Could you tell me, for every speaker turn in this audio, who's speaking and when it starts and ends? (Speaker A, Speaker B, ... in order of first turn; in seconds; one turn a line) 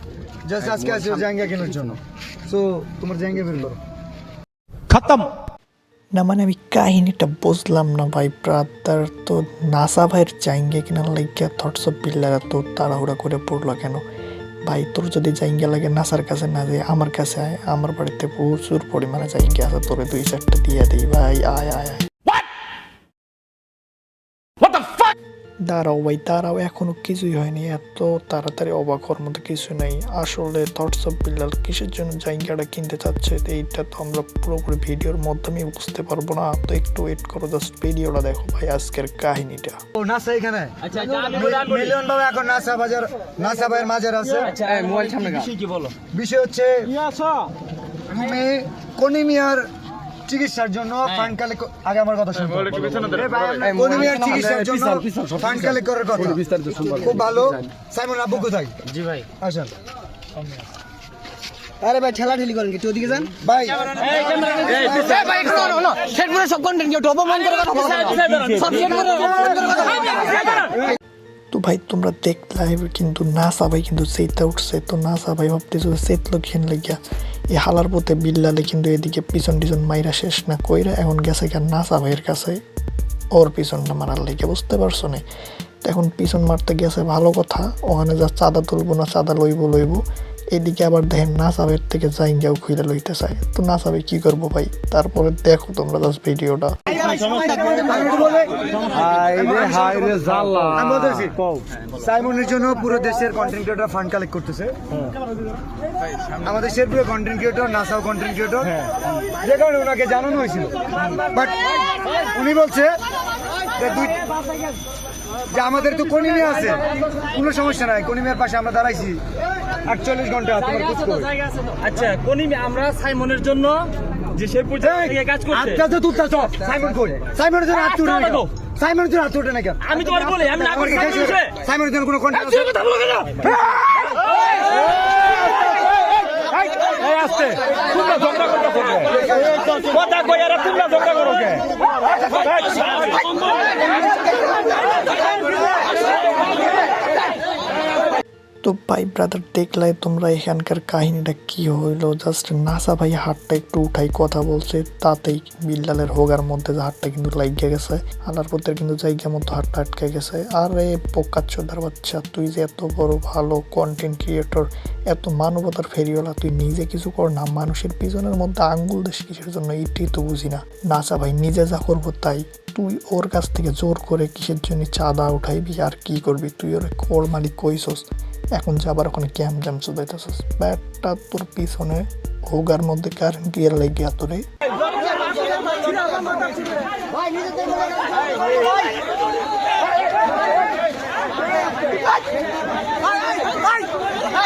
Speaker A: 0.4-3.8
Speaker A: 4.9-5.3
Speaker B: 6.1-14.1
Speaker B: 14.7-22.1
Speaker B: 25.6-39.8
Speaker A: 40.0-44.6
Speaker C: 44.6-45.8
Speaker A: 46.1-46.9
Speaker A: 48.1-49.7
Speaker A: 50.2-59.7
Speaker D: 61.8-63.2
Speaker A: 63.2-65.8
Speaker D: 65.8-67.8
Speaker C: 67.8-69.4
Speaker A: 69.4-70.1
Speaker B: 71.5-82.6
Speaker B: 83.3-85.2
Speaker B: 85.8-96.7
Speaker A: 96.9-101.4
Speaker A: 101.9-104.8
Speaker A: 106.4-108.8
Speaker A: 109.3-112.9
Speaker A: 113.7-114.3
Speaker A: 115.5-119.2
Speaker A: 119.8-121.3
Speaker C: 121.8-125.6
Speaker A: 124.7-133.3
Speaker C: 130.0-130.7
Speaker C: 137.1-139.0
Speaker A: 139.0-139.6
Speaker C: 139.8-141.6
Speaker B: 148.6-184.4